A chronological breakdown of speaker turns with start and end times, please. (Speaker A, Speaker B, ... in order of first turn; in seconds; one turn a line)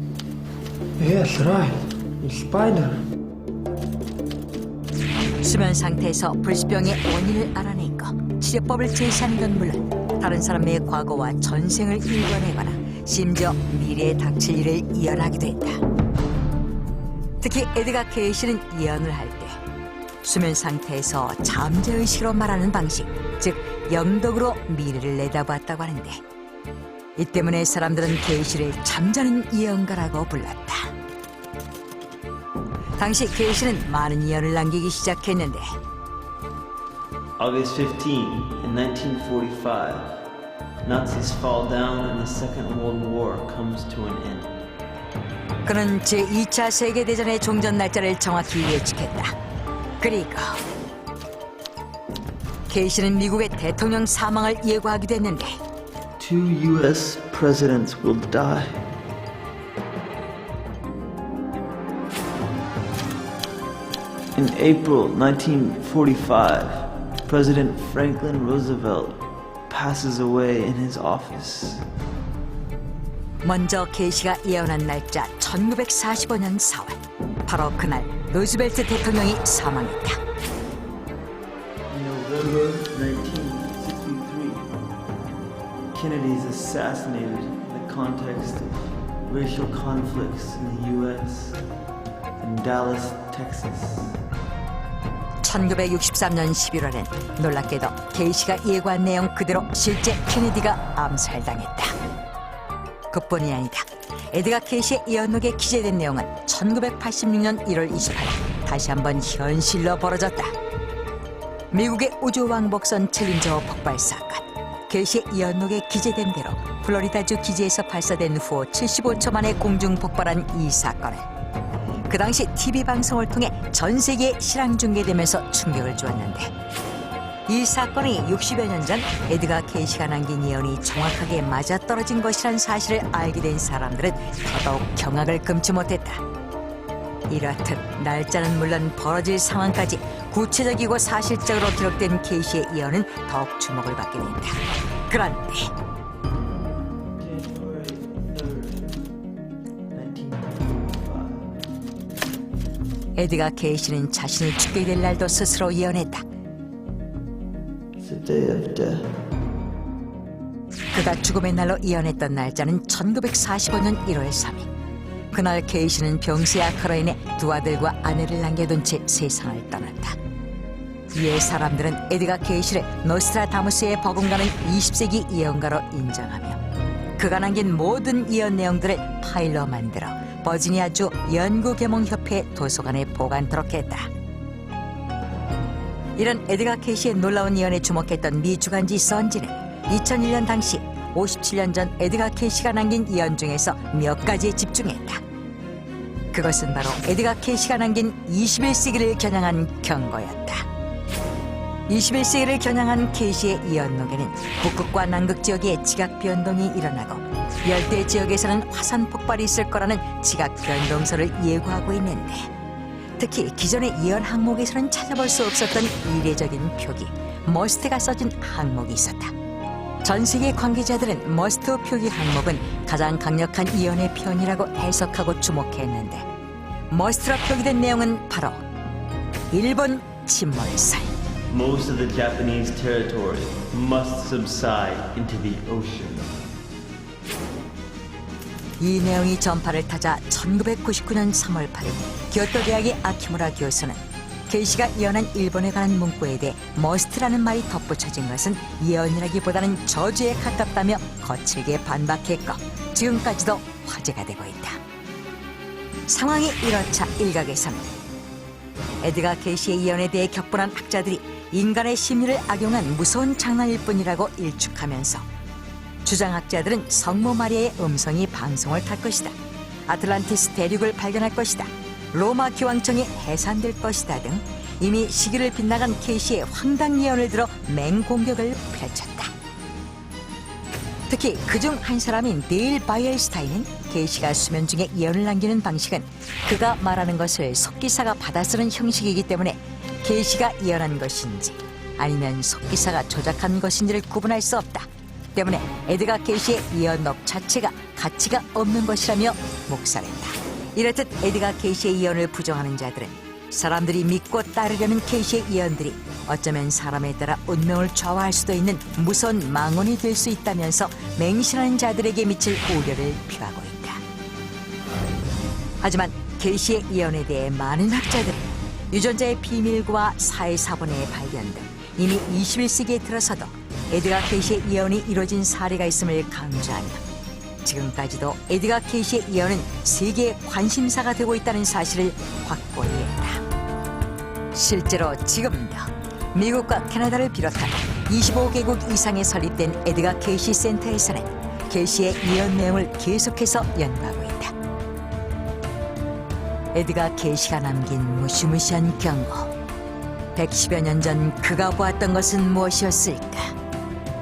Speaker A: 1.0-3.0
Speaker B: 5.4-15.8
Speaker B: 17.4-19.6
Speaker B: 20.2-26.2
Speaker B: 27.2-30.9
Speaker B: 33.0-35.7
Speaker C: 37.4-40.3
Speaker C: 40.8-44.6
Speaker B: 45.6-49.3
Speaker B: 50.0-50.6
Speaker B: 52.7-55.6
Speaker C: 56.2-58.9
Speaker C: 64.3-71.9
Speaker B: 73.4-80.2
Speaker C: 81.9-84.7
Speaker C: 85.9-91.6
Speaker C: 92.4-94.2
Speaker B: 95.4-102.0
Speaker B: 103.1-110.5
Speaker B: 111.7-121.2
Speaker B: 122.1-126.5
Speaker B: 127.5-136.2
Speaker B: 137.3-145.7
Speaker C: 147.2-149.1
Speaker C: 149.9-151.5
Speaker B: 153.2-156.2
Speaker C: 158.0-159.1
Speaker B: 160.9-164.7
Speaker B: 165.3-170.2
Speaker B: 171.1-176.6
Speaker B: 177.2-184.1
Speaker B: 186.2-195.2
Speaker B: 196.3-200.7
Speaker B: 201.9-212.5
Speaker B: 213.2-219.3
Speaker B: 220.0-226.3
Speaker B: 226.9-228.6
Speaker B: 229.5-231.1
Speaker C: 231.5-236.4
Speaker B: 238.8-254.8
Speaker B: 256.1-257.9
Speaker B: 259.0-265.2
Speaker B: 266.0-269.4
Speaker B: 269.9-279.3
Speaker B: 281.1-314.0
Speaker B: 315.8-327.0
Speaker B: 327.6-333.4
Speaker B: 334.5-344.5
Speaker B: 346.7-349.5
Speaker B: 350.4-353.5